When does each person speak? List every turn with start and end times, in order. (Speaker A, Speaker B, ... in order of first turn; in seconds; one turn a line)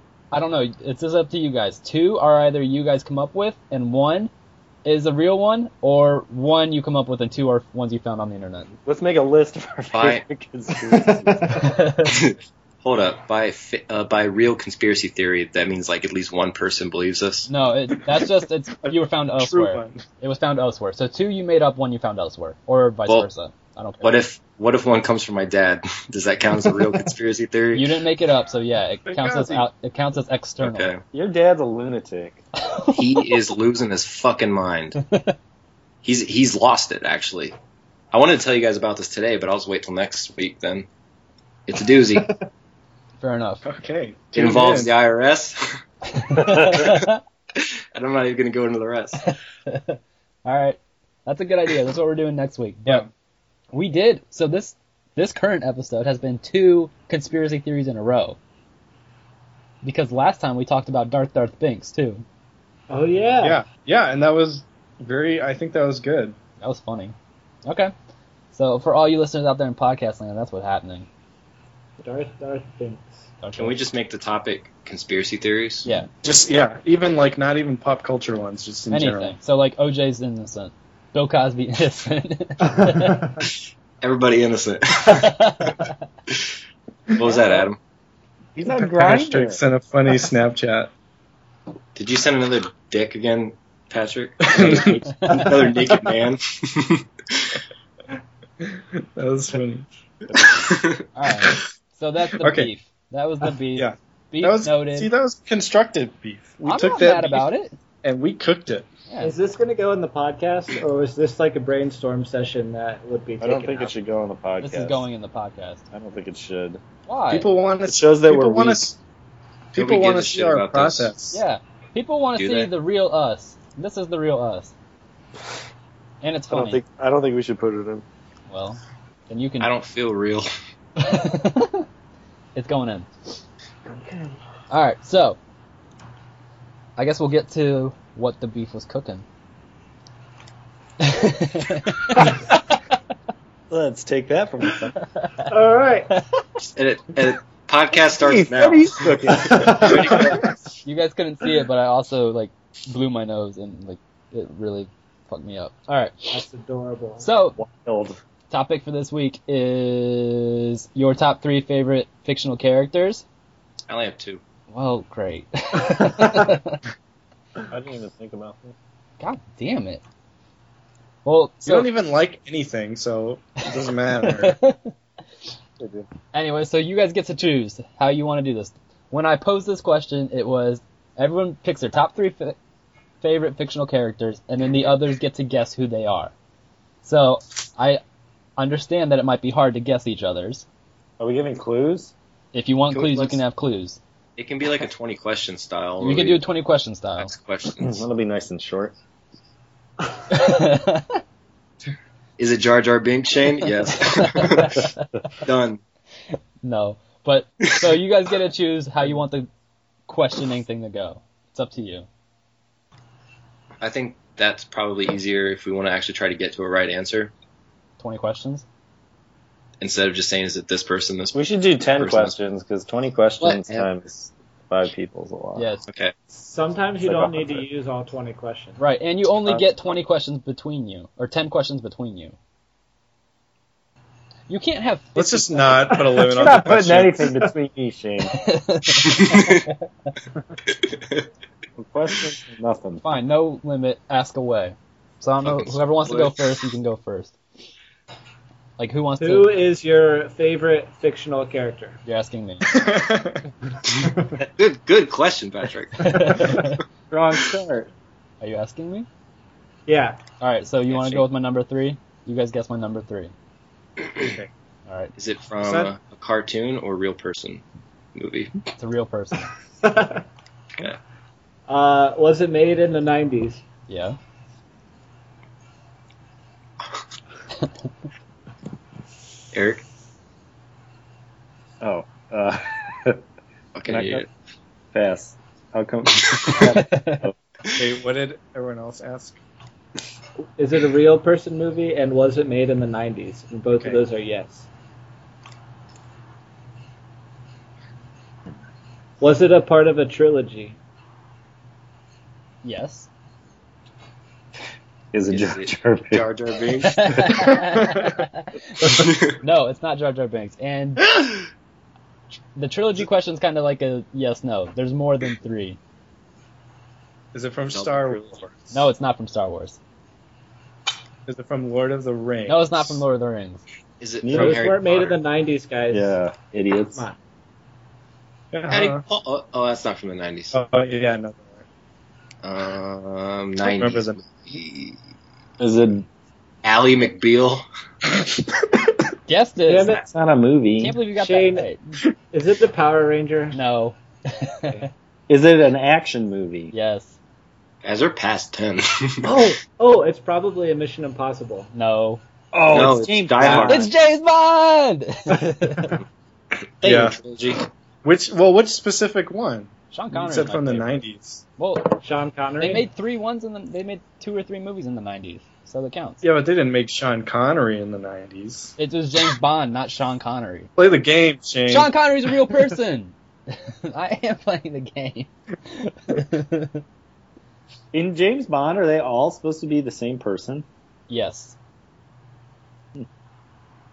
Speaker A: 0.3-4.3
Speaker A: 4.8-8.7
Speaker B: 8.9-11.7
Speaker C: 9.9-10.2
Speaker A: 11.6-12.2
Speaker C: 12.1-17.5
Speaker A: 17.5-24.2
Speaker D: 18.8-20.0
Speaker C: 24.0-28.0
Speaker A: 27.8-30.9
Speaker D: 29.1-29.7
Speaker C: 30.6-31.0
Speaker B: 31.1-32.4
Speaker A: 32.6-33.3
Speaker C: 33.0-35.0
Speaker C: 36.0-37.6
Speaker C: 38.1-40.9
Speaker C: 41.7-42.4
Speaker A: 43.2-43.6
Speaker D: 43.6-44.9
Speaker C: 44.3-45.6
Speaker A: 46.1-47.2
Speaker C: 47.6-49.2
Speaker A: 49.3-53.1
Speaker A: 53.7-58.4
Speaker A: 59.8-62.2
Speaker E: 62.9-63.6
Speaker D: 63.4-66.4
Speaker A: 66.6-67.9
Speaker A: 68.5-71.1
Speaker E: 72.0-73.3
Speaker A: 73.4-73.8
Speaker C: 73.6-75.9
Speaker D: 76.2-79.4
Speaker A: 78.9-83.2
Speaker E: 82.7-83.4
Speaker C: 84.0-85.3
Speaker A: 85.1-86.0
Speaker C: 87.1-87.8
Speaker E: 87.3-87.7
Speaker B: 88.6-89.6
Speaker D: 88.7-90.9
Speaker C: 92.0-97.5
Speaker D: 94.5-95.0
Speaker A: 95.1-95.5
Speaker D: 98.6-99.9
Speaker B: 100.3-100.6
Speaker C: 100.7-101.0
Speaker A: 101.2-105.1
Speaker D: 102.4-102.7
Speaker D: 103.8-107.5
Speaker A: 106.7-107.8
Speaker D: 108.0-108.9
Speaker A: 109.1-109.3
Speaker E: 109.2-114.0
Speaker B: 113.4-115.1
Speaker A: 114.6-115.8
Speaker B: 115.9-116.8
Speaker A: 117.1-117.5
Speaker D: 117.3-119.0
Speaker B: 117.9-118.9
Speaker D: 119.7-121.4
Speaker C: 119.8-121.1
Speaker A: 121.3-124.7
Speaker C: 122.4-122.7
Speaker A: 126.2-126.8
Speaker B: 126.5-128.0
Speaker A: 128.5-129.7
Speaker C: 129.6-130.5
Speaker A: 131.0-131.9
Speaker A: 132.6-133.4
Speaker B: 133.9-134.4
Speaker A: 134.7-135.4
Speaker A: 137.0-139.2
Speaker A: 141.0-142.3
Speaker B: 143.7-144.9
Speaker A: 145.1-145.5
Speaker E: 145.5-146.2
Speaker C: 146.6-150.4
Speaker B: 148.0-150.5
Speaker E: 149.5-149.9
Speaker A: 150.8-156.4
Speaker E: 156.3-157.3
Speaker A: 157.2-157.6
Speaker B: 157.6-158.2
Speaker A: 158.5-163.2
Speaker C: 163.9-164.4
Speaker A: 164.7-166.8
Speaker B: 167.7-168.7
Speaker A: 169.2-170.0
Speaker A: 171.2-171.9
Speaker D: 171.7-174.6
Speaker A: 174.2-174.9
Speaker B: 175.8-176.1
Speaker A: 176.3-182.6
Speaker A: 183.2-186.3
Speaker A: 187.0-188.0
Speaker A: 188.6-190.7
Speaker B: 191.2-192.1
Speaker A: 192.5-194.0
Speaker D: 192.9-193.4
Speaker C: 194.4-196.4
Speaker A: 196.0-197.3
Speaker C: 197.2-198.0
Speaker B: 197.8-198.9
Speaker A: 200.3-201.2
Speaker C: 202.4-204.9
Speaker A: 203.7-205.3
Speaker C: 205.4-205.8
Speaker A: 206.6-209.5
Speaker A: 210.1-212.1
Speaker C: 213.8-217.3
Speaker A: 218.0-218.7
Speaker C: 219.8-222.3
Speaker B: 221.3-225.7
Speaker A: 223.4-223.7
Speaker A: 225.6-225.8
Speaker E: 226.3-228.8
Speaker B: 227.0-227.7
Speaker A: 228.8-232.4
Speaker A: 234.5-235.9
Speaker D: 235.2-237.3
Speaker B: 236.2-238.4
Speaker A: 238.4-239.6
Speaker C: 239.2-239.7
Speaker C: 240.8-241.2
Speaker B: 241.8-243.0
Speaker A: 243.0-247.4
Speaker C: 245.4-246.5
Speaker A: 248.8-249.5
Speaker E: 249.2-252.0
Speaker A: 252.1-252.7
Speaker D: 252.6-253.4
Speaker E: 253.8-254.4
Speaker C: 254.6-256.7
Speaker A: 256.0-256.8
Speaker B: 257.1-257.9
Speaker A: 258.4-259.1
Speaker E: 259.9-260.2
Speaker A: 260.4-263.3
Speaker C: 260.9-261.2
Speaker D: 264.2-264.5
Speaker A: 264.9-265.1
Speaker C: 265.2-267.6
Speaker D: 265.6-265.9
Speaker C: 268.1-268.6
Speaker A: 268.8-269.5
Speaker E: 269.8-270.2
Speaker E: 271.7-273.6
Speaker A: 273.9-274.2
Speaker C: 279.5-279.8
Speaker B: 281.8-283.2
Speaker C: 283.8-284.3
Speaker B: 283.9-284.2
Speaker B: 284.9-287.4
Speaker A: 286.6-287.3
Speaker D: 287.8-289.4
Speaker E: 290.6-294.7
Speaker D: 293.8-294.0
Speaker E: 299.2-300.8
Speaker A: 302.6-303.1
Speaker B: 305.1-306.3
Speaker C: 305.3-307.4
Speaker A: 306.9-311.1
Speaker B: 307.1-307.4
Speaker C: 308.8-309.4
Speaker A: 312.6-315.8
Speaker D: 317.3-318.2
Speaker C: 317.7-318.7
Speaker A: 318.7-319.8
Speaker D: 321.3-323.0
Speaker A: 322.5-323.6
Speaker C: 324.0-325.2
Speaker B: 324.2-324.7
Speaker E: 324.3-326.2
Speaker B: 325.9-327.1
Speaker D: 328.5-329.0
Speaker C: 328.7-330.6
Speaker D: 330.5-331.6
Speaker C: 332.4-335.0
Speaker D: 333.6-334.2
Speaker B: 335.6-336.1
Speaker C: 336.6-337.6
Speaker A: 339.3-340.0
Speaker E: 339.7-340.1
Speaker B: 340.1-341.0
Speaker A: 340.8-341.8
Speaker E: 341.1-341.7
Speaker E: 342.3-343.6
Speaker A: 343.5-344.9
Speaker B: 345.3-346.7
Speaker A: 346.7-347.2
Speaker C: 347.8-349.5
Speaker E: 349.2-351.7
Speaker A: 351.7-352.2
Speaker B: 352.5-353.9
Speaker C: 352.7-353.9
Speaker A: 353.5-356.0
Speaker C: 356.8-357.6
Speaker D: 356.8-357.2
Speaker D: 358.0-361.4
Speaker A: 359.9-361.0
Speaker A: 361.6-362.0
Speaker E: 362.0-362.9
Speaker A: 362.6-366.2
Speaker D: 366.2-368.7
Speaker A: 368.8-370.7
Speaker D: 370.8-371.9
Speaker A: 371.7-376.8
Speaker B: 377.9-380.7
Speaker A: 381.1-381.6